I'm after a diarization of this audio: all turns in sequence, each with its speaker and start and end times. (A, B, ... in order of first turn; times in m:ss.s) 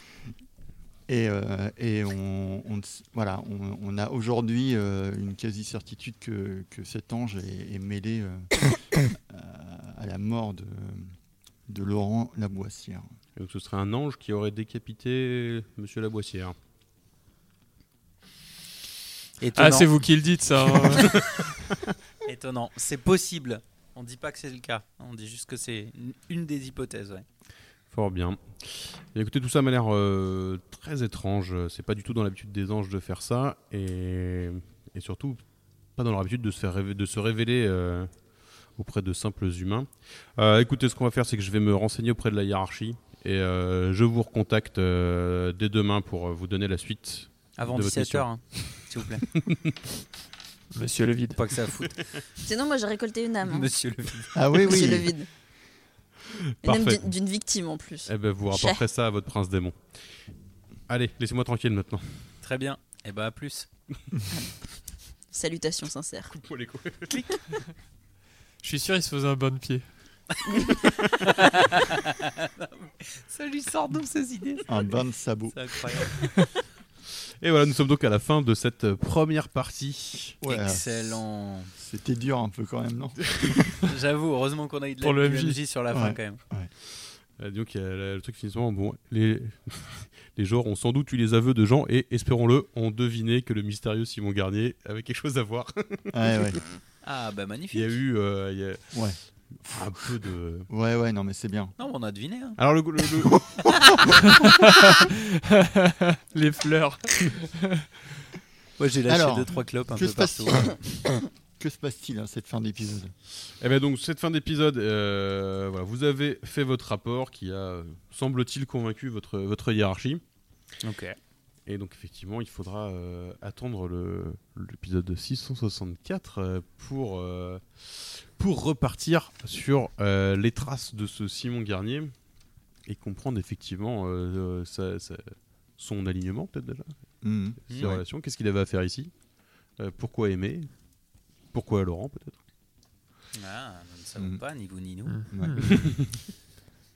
0:01.1-0:11.1 A
0:11.7-0:13.0 A
0:13.4-0:16.6 B
0:19.4-0:19.9 C
0:19.6-0:21.2 D
0:22.2-0:27.2 C
0:27.9-0:35.4 B
0:36.0-0:38.1 B
0:38.8-0:48.8 B
0:47.6-0:49.3 C
0:49.4-0:49.8 B
0:50.7-0:51.4 D
0:51.4-0:52.0 C
0:52.4-0:53.7 E
0:53.4-0:54.3 C
0:54.3-0:55.1 A
0:54.5-0:55.3 E
0:56.3-0:57.1 B
0:56.6-0:58.8 E
0:58.0-0:59.8 B
1:00.9-1:02.2 B
1:02.4-1:03.7 C
1:05.3-1:06.3 E
1:06.3-1:07.2 B
1:08.6-1:09.8 D
1:11.2-1:14.7 C
1:14.7-1:15.6 A
1:15.5-1:16.3 C
1:17.4-1:20.3 B
1:20.4-1:21.2 A
1:20.5-1:21.7 C
1:21.8-1:23.4 A
1:23.6-1:26.4 C
1:25.0-1:25.6 D
1:25.9-1:26.7 A
1:27.4-1:36.6 B
1:36.1-1:36.6 A
1:37.0-1:38.0 C
1:37.7-1:38.9 B
1:38.9-1:39.8 A
1:39.6-1:40.7 B
1:40.7-1:41.7 A
1:41.8-1:42.6 C
1:42.6-1:43.5 B
1:44.4-1:47.8 D
1:48.8-1:50.8 C
1:49.1-1:53.1 A
1:53.6-2:00.2 B
2:00.8-2:01.2 C
2:01.6-2:12.1 B
2:12.8-2:16.9 B
2:17.2-2:18.0 A
2:17.7-2:17.9 C
2:17.7-2:19.1 B
2:19.8-2:20.7 B
2:21.5-2:22.4 B
2:23.3-2:25.2 C
2:25.1-2:25.7 D
2:25.3-2:25.8 A
2:25.6-2:26.0 B